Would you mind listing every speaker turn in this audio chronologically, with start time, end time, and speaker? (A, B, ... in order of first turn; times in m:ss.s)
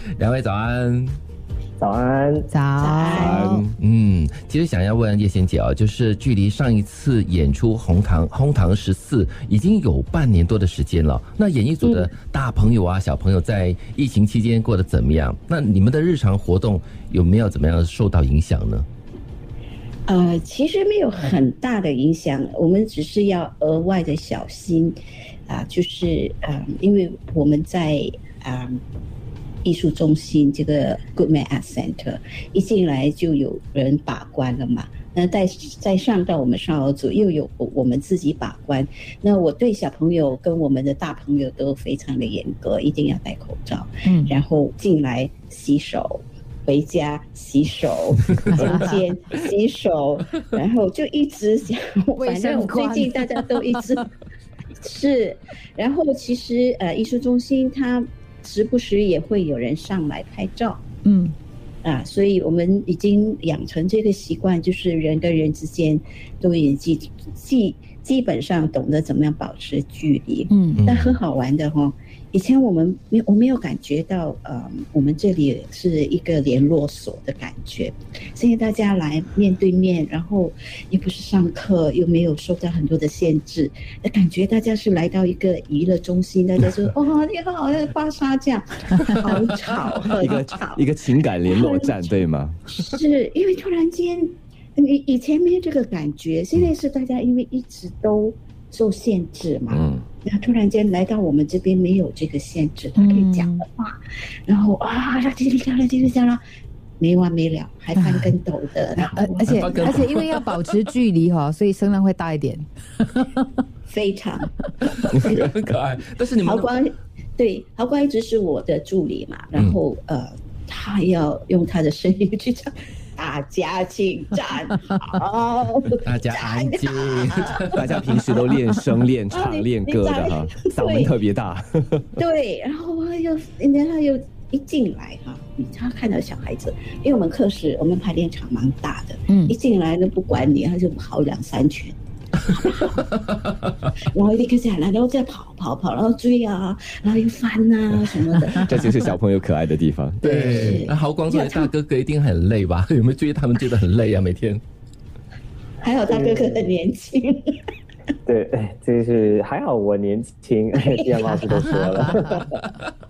0:00.2-0:01.2 A
0:01.8-0:02.5 B
0:02.5-0:03.6 C
0:02.8-0:03.5 D
0:03.1-0:03.8 E
0:03.8-0:18.9 A
0:20.1-0:28.8 D
0:29.6-0:54.1 D
0:44.0-0:44.4 C
0:48.5-0:49.0 C
0:52.2-0:54.0 C
0:54.8-1:00.8 D
1:01.0-1:01.4 C
1:01.8-1:30.9 D
1:10.5-1:10.8 C
1:10.7-1:11.1 A
1:30.1-1:32.6 E
1:31.4-1:44.0 D
1:39.7-1:40.0 E
1:43.0-1:43.6 C
1:44.5-1:46.4 D
1:47.0-1:50.0 D
1:47.9-1:48.4 C
1:49.0-1:53.4 C
1:49.5-1:50.5 A
1:53.9-1:55.5 D
1:55.0-1:56.7 A
1:56.4-2:08.5 D
2:06.0-2:07.8 A
2:07.7-2:12.1 E
2:09.3-2:11.1 D
2:12.2-2:23.0 D
2:19.3-2:19.6 C
2:24.1-2:29.0 D
2:28.6-2:30.8 E
2:30.2-2:31.7 D
2:30.2-2:34.6 A
2:35.8-2:37.5 D
2:36.1-2:36.6 B
2:38.2-2:42.5 B
2:41.4-2:42.4 C